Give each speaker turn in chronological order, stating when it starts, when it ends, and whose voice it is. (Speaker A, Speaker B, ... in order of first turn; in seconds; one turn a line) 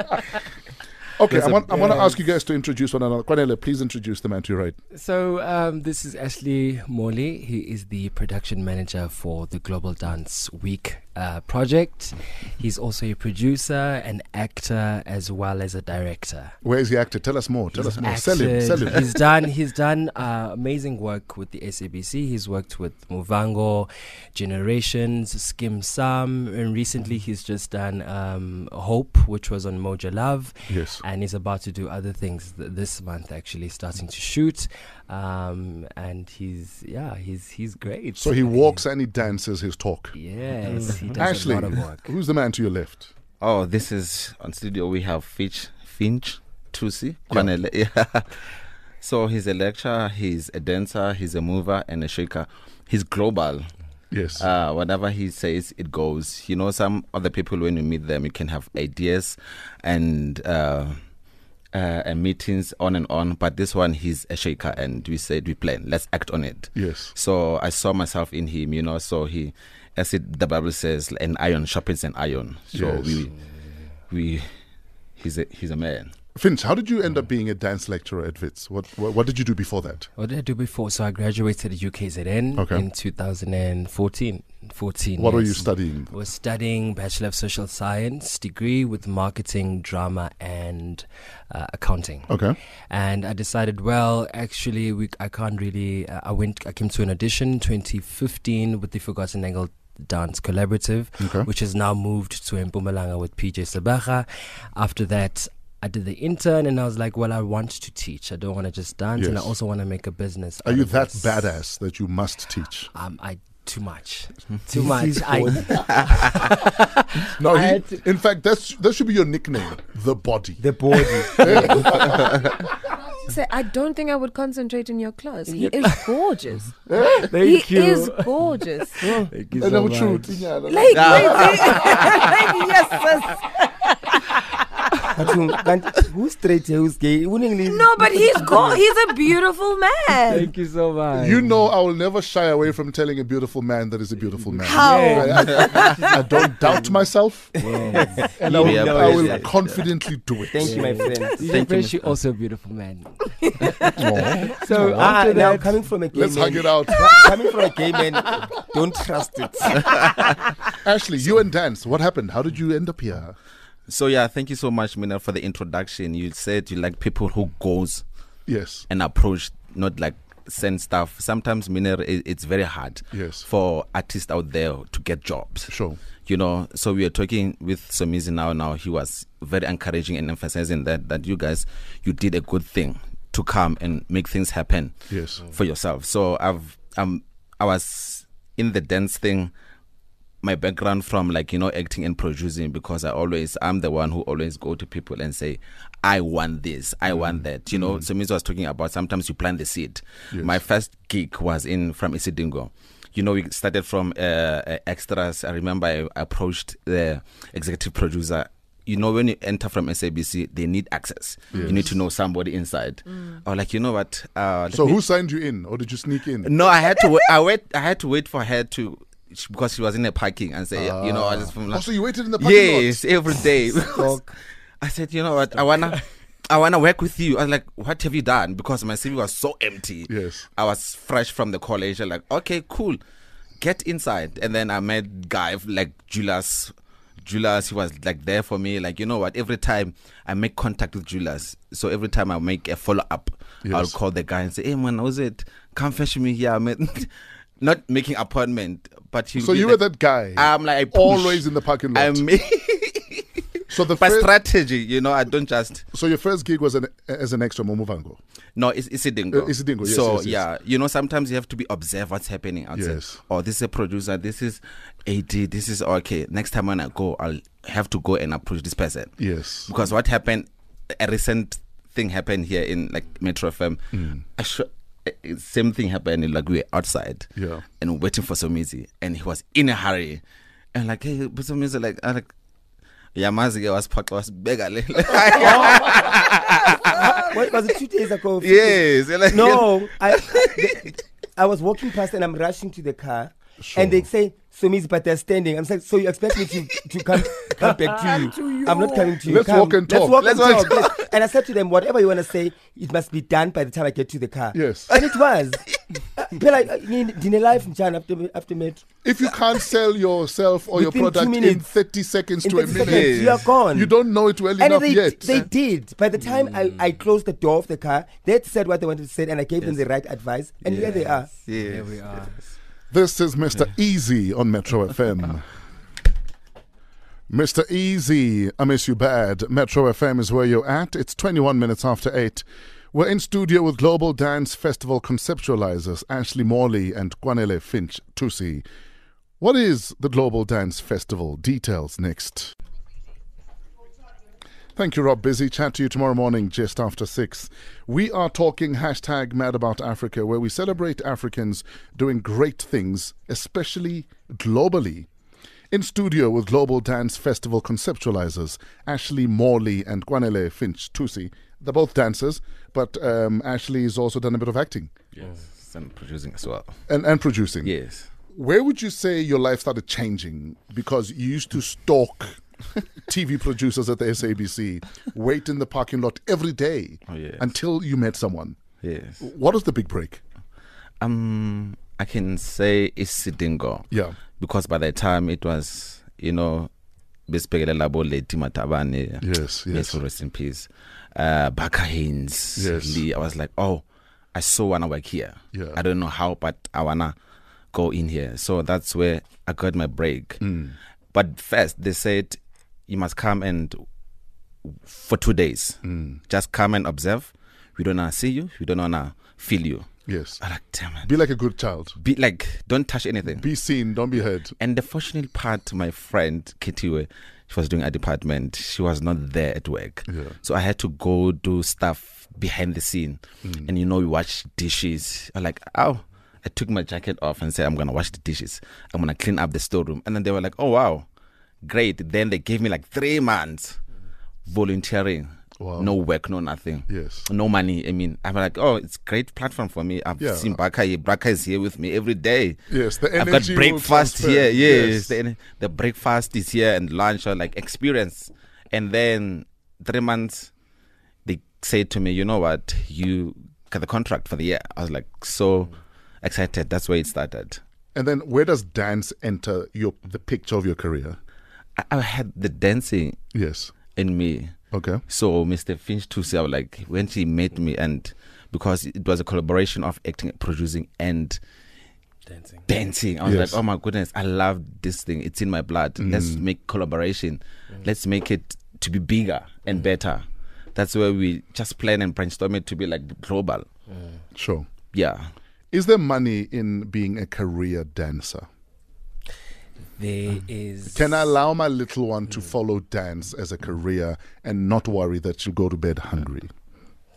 Speaker A: 1.2-4.8
Speaker B: 1.4-2.1
Speaker C: 4.9-16.6
Speaker A: 16.6-19.2
Speaker C: 17.8-38.8
Speaker A: 30.7-31.0
Speaker A: 38.2-40.1
Speaker C: 40.1-42.1
Speaker B: 40.7-41.2
Speaker A: 41.2-43.1
Speaker D: 43.4-48.5
Speaker D: 49.0-53.7
Speaker A: 54.1-54.5
Speaker D: 54.4-61.0
Speaker D: 61.7-73.3
Speaker A: 66.8-67.1
Speaker A: 72.7-73.3
Speaker D: 74.1-74.5
Speaker D: 75.2-76.1
Speaker A: 76.4-80.1
Speaker C: 80.2-92.3
Speaker A: 82.6-82.8
Speaker A: 85.2-86.1
Speaker A: 92.3-92.6
Speaker C: 92.9-111.4
Speaker A: 101.2-101.5
Speaker A: 109.2-109.5
Speaker A: 110.6-112.9
Speaker C: 112.9-117.2
Speaker B: 114.7-116.3
Speaker D: 115.9-116.3
Speaker A: 117.3-120.6
Speaker B: 120.6-122.1
Speaker A: 121.3-122.5
Speaker C: 121.4-121.8
Speaker E: 123.2-129.2
Speaker C: 125.7-125.9
Speaker A: 126.9-127.3
Speaker B: 127.3-128.0
Speaker C: 127.5-128.3
Speaker B: 129.0-129.3
Speaker C: 129.0-130.5
Speaker A: 129.6-131.6
Speaker E: 130.7-133.3
Speaker D: 130.9-132.0
Speaker C: 131.5-132.5
Speaker B: 135.1-138.0
Speaker E: 137.7-140.5
Speaker C: 140.3-141.5
Speaker A: 141.1-147.6
Speaker E: 144.6-146.5
Speaker C: 144.8-145.9
Speaker C: 147.6-148.3
Speaker B: 147.7-149.5
Speaker A: 148.2-150.9
Speaker D: 148.5-149.8
Speaker B: 150.5-151.4
Speaker C: 150.6-155.8
Speaker D: 151.4-152.1
Speaker A: 153.9-155.2
Speaker B: 154.6-160.3
Speaker A: 156.1-157.2
Speaker A: 160.8-163.4
Speaker D: 163.9-168.0
Speaker A: 168.5-168.9
Speaker D: 168.9-175.7
Speaker A: 173.1-173.5
Speaker A: 175.7-176.0
Speaker D: 176.2-189.5
Speaker A: 185.1-185.4
Speaker D: 190.4-215.0
Speaker A: 197.2-198.0
Speaker A: 200.3-200.6
Speaker A: 211.5-212.0
Speaker A: 214.7-216.5
Speaker D: 216.4-221.9
Speaker A: 220.8-223.0
Speaker D: 222.4-233.0
Speaker B: 223.9-224.3
Speaker A: 230.1-230.5
Speaker D: 233.6-249.8
Speaker A: 243.7-243.9
Speaker A: 249.4-252.2
Speaker D: 250.3-255.8
Speaker A: 253.7-254.3
Speaker A: 255.9-258.2
Speaker D: 258.6-280.2
Speaker A: 259.3-260.4
Speaker A: 262.7-263.2
Speaker A: 269.2-269.7
Speaker A: 273.9-274.2
Speaker A: 277.4-277.6
Speaker D: 280.7-282.3
Speaker D: 283.1-287.5
Speaker B: 285.4-285.9
Speaker B: 286.9-305.6
Speaker D: 288.4-290.8
Speaker A: 293.6-294.1
Speaker D: 297.6-298.9
Speaker A: 299.2-300.8
Speaker D: 300.2-301.1
Speaker A: 304.5-304.9
Speaker D: 304.9-305.2
Speaker B: 306.2-308.9
Speaker A: 309.0-315.5
Speaker B: 310.7-311.6
Speaker B: 312.4-313.9
Speaker D: 312.7-313.5
Speaker B: 314.6-321.3
Speaker D: 320.6-321.9
Speaker C: 320.8-322.4
Speaker A: 322.9-325.4
Speaker A: 327.3-338.6
Speaker A: 339.4-342.5
Speaker A: 344.8-355.1
Speaker A: 355.7-365.0
Speaker D: 365.2-366.8
Speaker A: 366.9-367.7
Speaker D: 367.6-368.1
Speaker A: 368.3-372.4
Speaker A: 373.1-378.6
Speaker D: 377.1-377.5
Speaker D: 378.8-379.3
Speaker A: 379.2-380.2
Speaker D: 381.0-383.9
Speaker A: 383.9-384.2
Speaker D: 384.4-386.7
Speaker D: 387.3-397.1
Speaker A: 389.2-390.0
Speaker A: 392.6-393.0
Speaker A: 395.5-395.8
Speaker D: 397.7-400.4
Speaker A: 400.4-400.8
Speaker D: 401.1-403.8
Speaker D: 404.6-409.9
Speaker A: 405.9-406.2
Speaker A: 410.1-410.4
Speaker D: 410.4-411.1
Speaker A: 411.0-412.0
Speaker D: 412.0-413.5
Speaker A: 413.4-414.6
Speaker D: 414.6-431.1
Speaker A: 420.1-420.4
Speaker A: 423.4-423.7
Speaker D: 431.6-433.8
Speaker D: 434.5-442.6
Speaker A: 435.6-435.9
Speaker A: 436.9-437.3
Speaker A: 440.2-440.6
Speaker A: 442.7-445.2
Speaker D: 443.1-450.5
Speaker D: 451.2-457.6
Speaker A: 457.9-461.2
Speaker D: 461.8-463.2
Speaker A: 463.3-463.7
Speaker D: 463.9-464.6
Speaker A: 464.7-465.0
Speaker D: 465.1-471.4
Speaker D: 472.7-483.7
Speaker A: 473.2-473.6
Speaker A: 476.0-476.4
Speaker A: 484.4-484.7
Speaker D: 484.9-485.3
Speaker A: 485.7-488.5
Speaker C: 490.0-491.3
Speaker A: 490.9-496.5